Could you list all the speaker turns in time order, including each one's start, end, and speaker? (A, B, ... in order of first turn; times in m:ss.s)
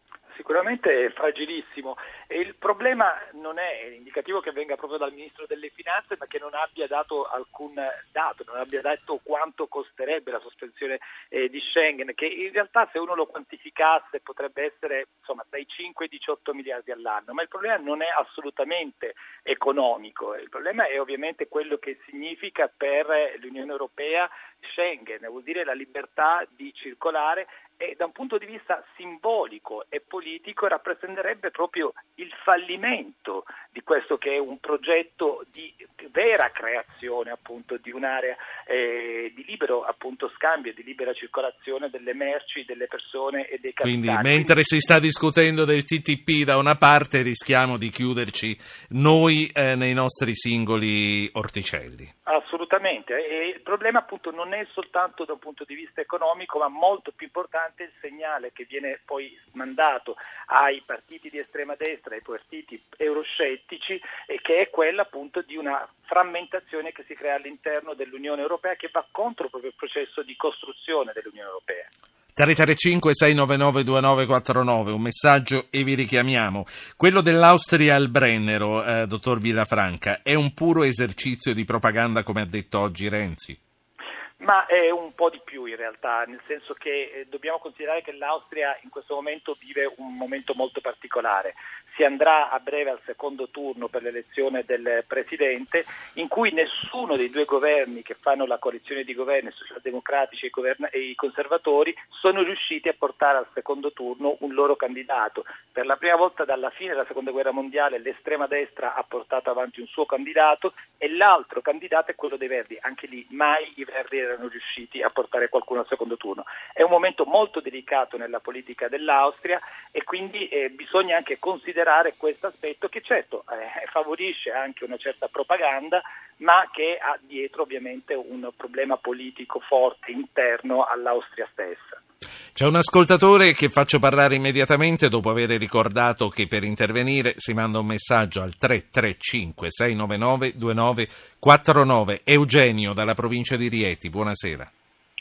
0:00.3-0:44.7 A
0:43.8-0:52.1 B
0:52.3-1:11.9 A
1:12.4-1:23.6 B
1:24.4-2:12.0 A
2:12.6-2:24.7 B